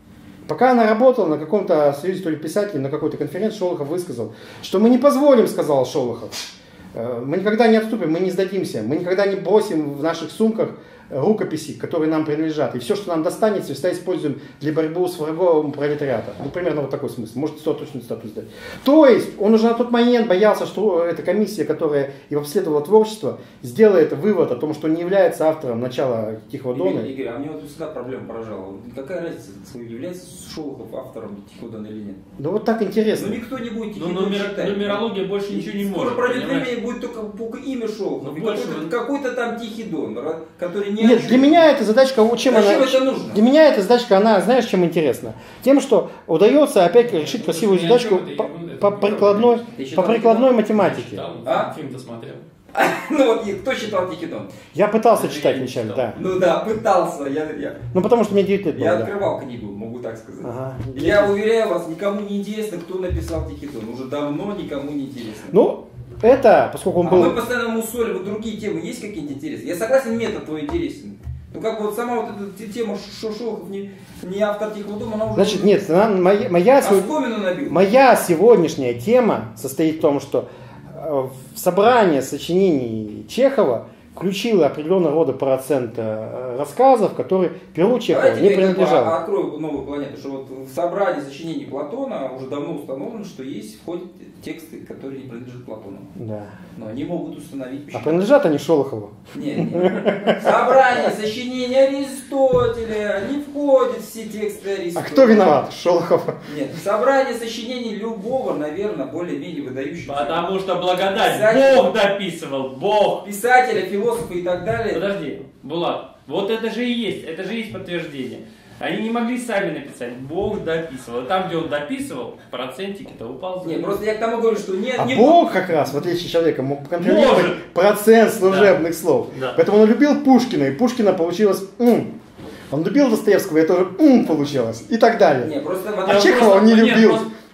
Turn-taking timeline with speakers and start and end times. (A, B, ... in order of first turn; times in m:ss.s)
0:00.5-0:27.1 A
0:26.7-0:32.2 B
0:32.4-0:33.4 A
0:33.1-0:41.6 B
0:33.9-0:36.7 C
0:38.2-0:38.9 C
0:41.0-0:51.2 A
0:42.4-0:43.4 B
0:46.9-0:49.6 D
0:49.6-0:50.5 B
0:50.6-0:52.5 D
0:51.4-0:51.7 B
0:52.7-0:54.5 B
0:54.7-0:56.2 A
0:55.1-0:56.1 C
0:56.1-0:57.8 B
0:57.9-0:59.1 A
0:58.7-1:05.6 B
1:00.4-1:01.4 A
1:05.5-1:07.4 A
1:07.0-1:15.9 B
1:15.3-1:17.1 A
1:16.8-1:17.8 B
1:17.6-1:29.2 A
1:28.1-1:36.1 B
1:36.1-1:36.5 A
1:36.7-1:38.3 B
1:37.9-1:40.8 A
1:39.3-1:45.6 B
1:44.9-1:46.4 A
1:46.4-1:50.4 B
1:50.0-1:53.2 C
1:51.1-1:51.9 B
1:53.2-1:55.0 B
1:54.9-2:04.0 C
2:03.6-2:05.4 B
2:05.0-2:12.1 A
2:07.0-2:07.6 C
2:08.4-2:08.8 C
2:09.3-2:09.6 C
2:12.7-2:15.5 A
2:15.4-2:16.7 B
2:16.0-2:17.3 A
2:16.0-2:17.3 C